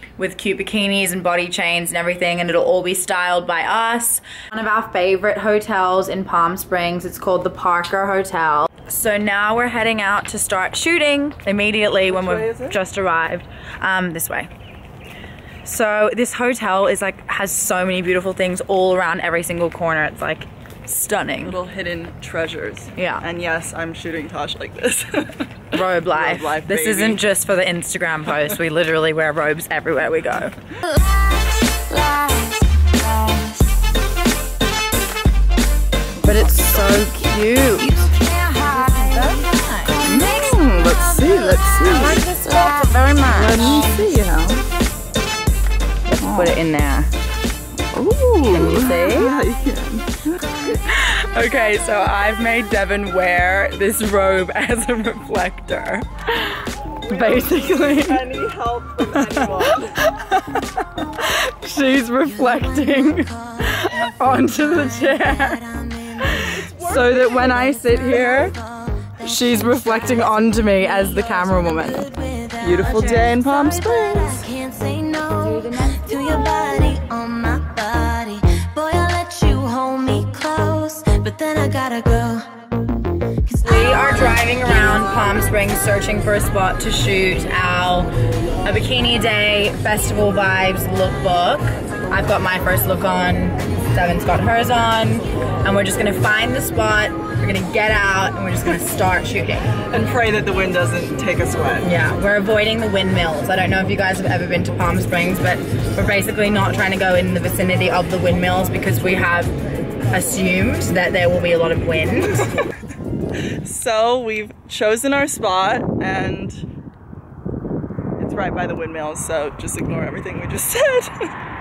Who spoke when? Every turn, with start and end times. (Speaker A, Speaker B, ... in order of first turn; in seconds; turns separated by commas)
Speaker A: 0.2-14.5, Speaker B: 12.1-12.8, Speaker A: 15.6-21.6, Speaker B: 21.4-27.2, Speaker A: 23.0-23.2, Speaker A: 25.7-30.6, Speaker C: 31.0-32.8, Speaker A: 33.1-33.4, Speaker A: 36.2-38.1, Speaker C: 37.8-43.8, Speaker A: 38.6-40.3, Speaker B: 40.0-42.3, Speaker A: 41.8-44.0, Speaker B: 43.2-44.6, Speaker A: 46.1-47.1, Speaker B: 46.2-46.5, Speaker B: 47.9-50.5, Speaker A: 48.5-49.3, Speaker A: 50.8-58.2, Speaker B: 57.1-60.0, Speaker A: 59.1-60.4, Speaker A: 61.2-65.6, Speaker C: 62.4-66.4, Speaker A: 66.2-68.5, Speaker B: 66.4-67.7, Speaker C: 67.6-82.5, Speaker A: 69.2-72.1, Speaker B: 72.6-74.5, Speaker A: 75.4-76.9, Speaker C: 83.5-84.5, Speaker A: 83.6-88.1, Speaker A: 88.6-99.8, Speaker B: 99.9-101.9, Speaker A: 101.8-109.5, Speaker A: 110.1-112.6, Speaker B: 113.6-116.6, Speaker B: 118.2-121.3